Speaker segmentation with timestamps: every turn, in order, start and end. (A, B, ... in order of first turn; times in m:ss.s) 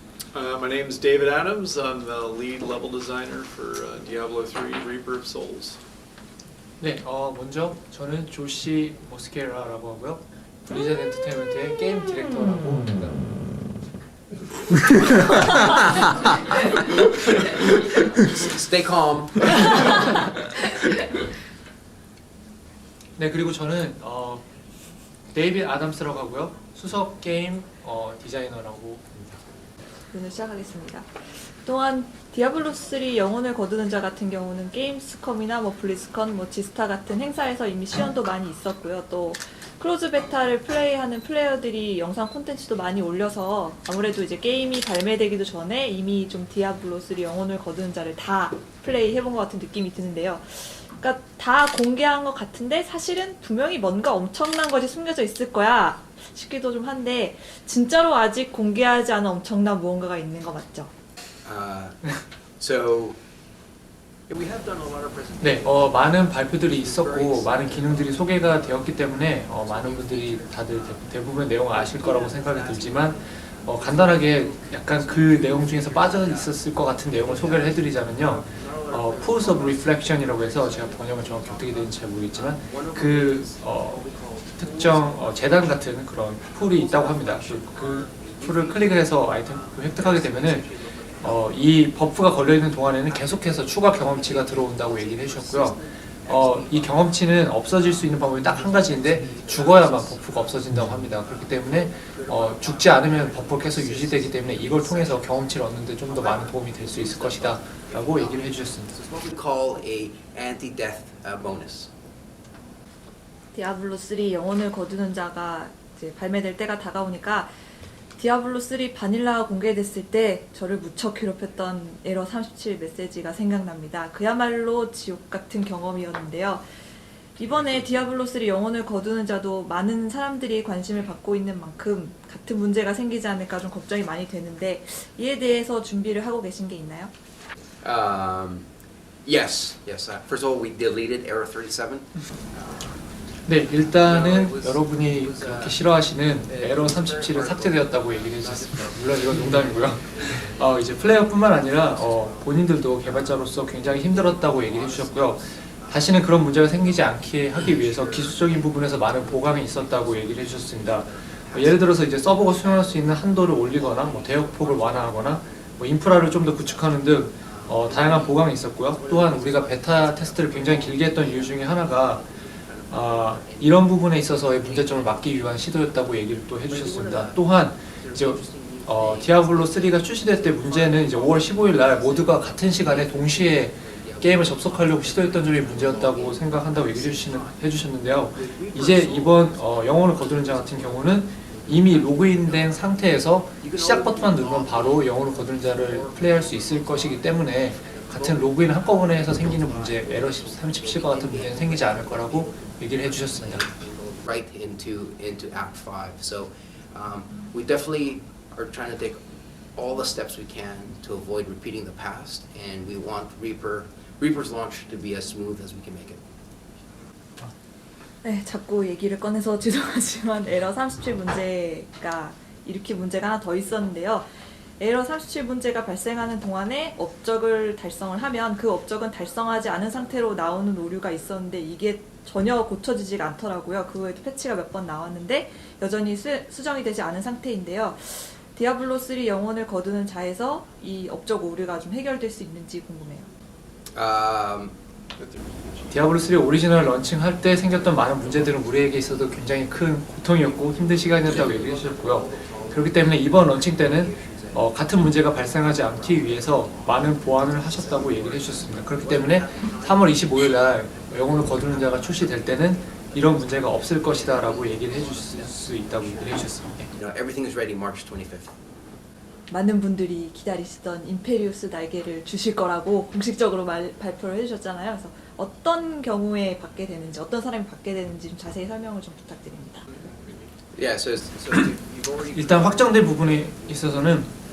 0:00.3-0:05.8 A
0:06.8-0:13.3 B
0:16.8-0:19.7 C
0:23.2-0:24.5 B
0:25.3-0:29.4 B
0:30.1-1:00.9 D
1:01.4-1:03.2 C
1:04.3-1:11.1 C
1:05.4-1:24.0 B
1:11.7-1:25.8 C
1:24.6-1:30.7 B
1:26.4-1:31.8 C
1:31.2-1:48.9 B
1:32.4-1:51.9 C
1:53.5-1:57.5 D
1:58.2-2:06.6 D
2:07.4-2:17.1 D
2:17.8-2:18.7 C
2:19.2-2:23.4 C
2:23.4-2:52.2 B
2:23.9-2:25.8 C
2:26.4-2:56.1 C
2:52.9-3:23.7 B
2:56.6-3:07.7 C
3:08.3-3:36.2 C
3:38.2-3:44.3 D
3:44.8-4:03.3 D
4:03.9-4:04.8 C
4:05.2-4:05.9 A
4:05.9-4:26.9 B
4:07.4-4:09.6 C
4:10.3-4:28.6 C
4:29.5-4:39.9 D
4:39.9-4:40.6 A
4:40.8-4:44.2 C
4:42.2-4:44.3 B